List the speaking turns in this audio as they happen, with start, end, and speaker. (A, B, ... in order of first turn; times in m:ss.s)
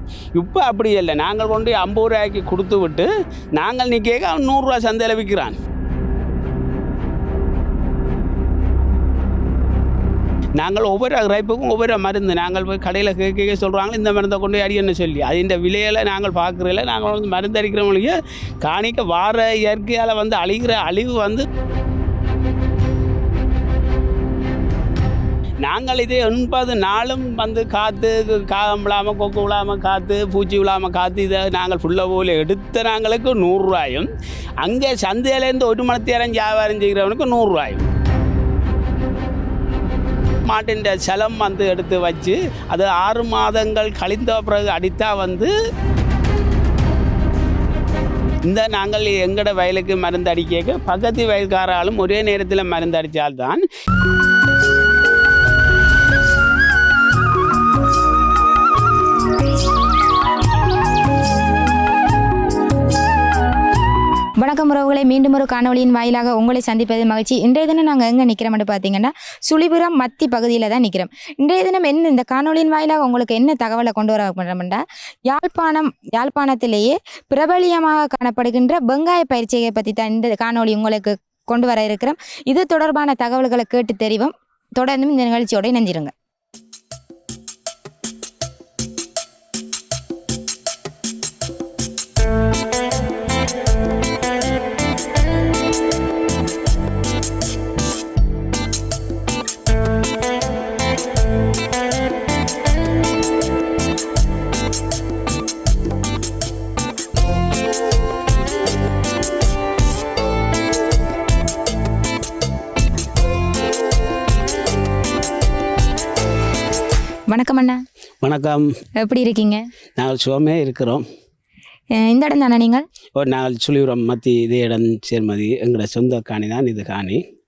0:00.4-0:05.6 A
0:10.6-0:21.4 A
0:25.6-0:34.1 A
0:34.6-0:37.8 A
0:40.5-0:45.5 A
0:48.4-0:53.6 A
1:04.4-1:26.1 B
1:57.3-1:57.8 B
1:58.2-1:58.7 A
1:59.0-1:59.6 B
2:00.0-2:01.0 A
2:02.0-2:02.8 B
2:03.2-2:07.2 A